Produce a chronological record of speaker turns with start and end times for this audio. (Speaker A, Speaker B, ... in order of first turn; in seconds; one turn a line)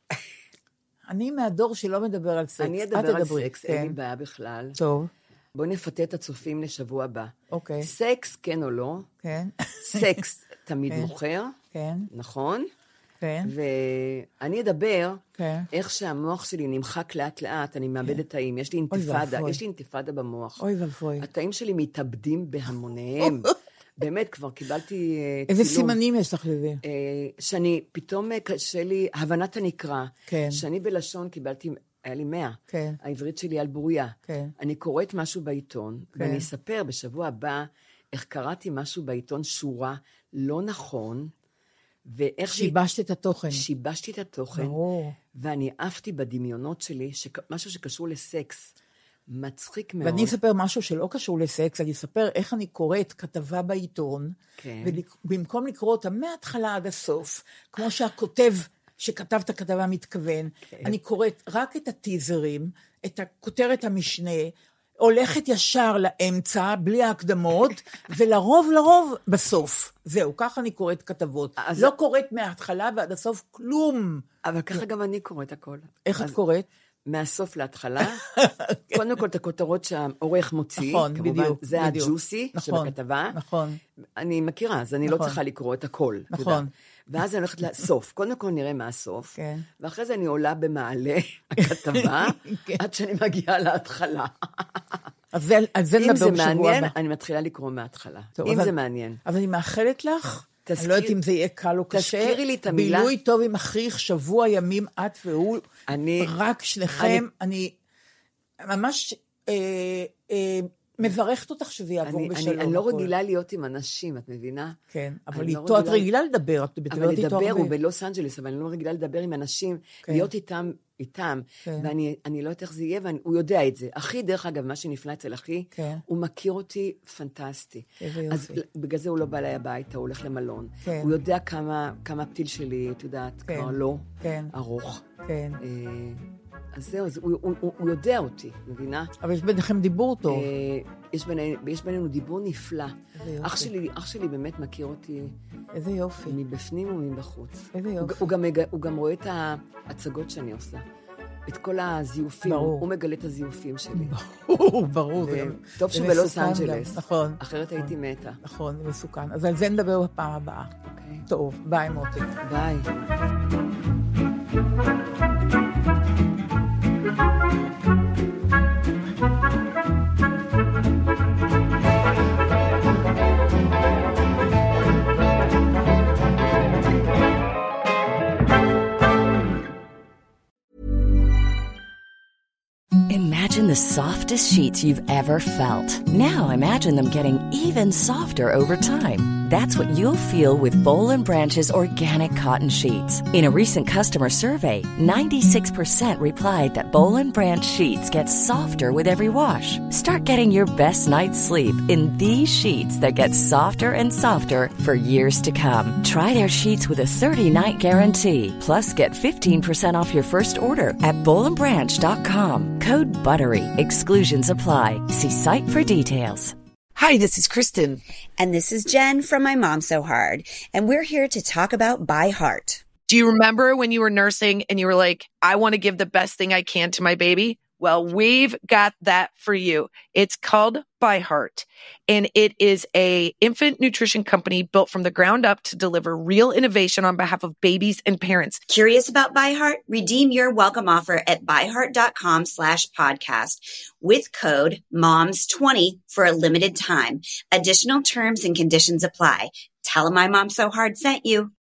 Speaker A: 1.1-3.9
Speaker B: 2.6-4.8
Speaker A: 4.8-5.1
Speaker B: 5.5-9.1
Speaker A: 7.5-7.9
Speaker A: 9.2-10.2
Speaker B: 9.9-11.5
Speaker A: 11.7-12.1
Speaker B: 12.1-12.7
Speaker A: 13.2-13.5
Speaker B: 13.4-20.6
Speaker A: 15.4-15.7
Speaker A: 18.9-19.6
Speaker A: 20.6-21.3
Speaker B: 21.2-26.0
Speaker A: 25.5-26.8
Speaker B: 26.8-41.3
Speaker A: 30.3-30.6
Speaker A: 32.7-33.0
Speaker A: 34.3-34.5
Speaker A: 36.2-36.5
Speaker B: 42.0-42.7
Speaker A: 42.5-43.6
Speaker B: 43.5-44.8
Speaker A: 44.5-45.1
Speaker B: 45.3-48.7
Speaker B: 49.3-50.3
Speaker A: 50.0-74.8
Speaker B: 54.6-55.0
Speaker B: 60.7-61.0
Speaker B: 71.6-71.9
Speaker B: 74.4-76.3
Speaker A: 76.0-76.7
Speaker B: 77.1-78.2
Speaker A: 78.3-79.0
Speaker B: 78.9-83.4
Speaker A: 80.8-83.8
Speaker B: 84.2-94.9
Speaker A: 85.0-85.4
Speaker A: 86.3-86.7
Speaker A: 89.3-89.7
Speaker A: 91.6-92.8
Speaker A: 95.3-96.9
Speaker B: 96.0-99.2
Speaker A: 98.4-98.7
Speaker A: 99.2-105.7
Speaker B: 100.7-101.1
Speaker B: 101.9-103.1
Speaker B: 105.9-106.3
Speaker A: 106.2-107.7
Speaker B: 107.0-107.2
Speaker A: 108.6-113.1
Speaker B: 112.0-114.8
Speaker A: 114.9-117.7
Speaker B: 115.3-116.1
Speaker B: 116.9-135.0
Speaker A: 125.7-126.0
Speaker A: 128.0-128.6
Speaker A: 130.8-131.2
Speaker A: 133.4-134.5
Speaker A: 135.2-135.6
Speaker B: 135.6-139.1
Speaker A: 139.2-140.5
Speaker B: 140.3-145.3
Speaker A: 143.2-143.7
Speaker A: 145.7-146.3
Speaker B: 146.2-150.8
Speaker A: 147.7-148.3
Speaker B: 151.5-154.1
Speaker A: 152.4-152.8
Speaker A: 153.9-160.7
Speaker B: 155.2-158.4
Speaker B: 160.9-161.2
Speaker A: 161.3-162.3
Speaker B: 162.4-162.9
Speaker C: 183.1-216.5
Speaker D: 216.9-222.8
Speaker E: 223.1-238.6
Speaker D: 238.7-251.5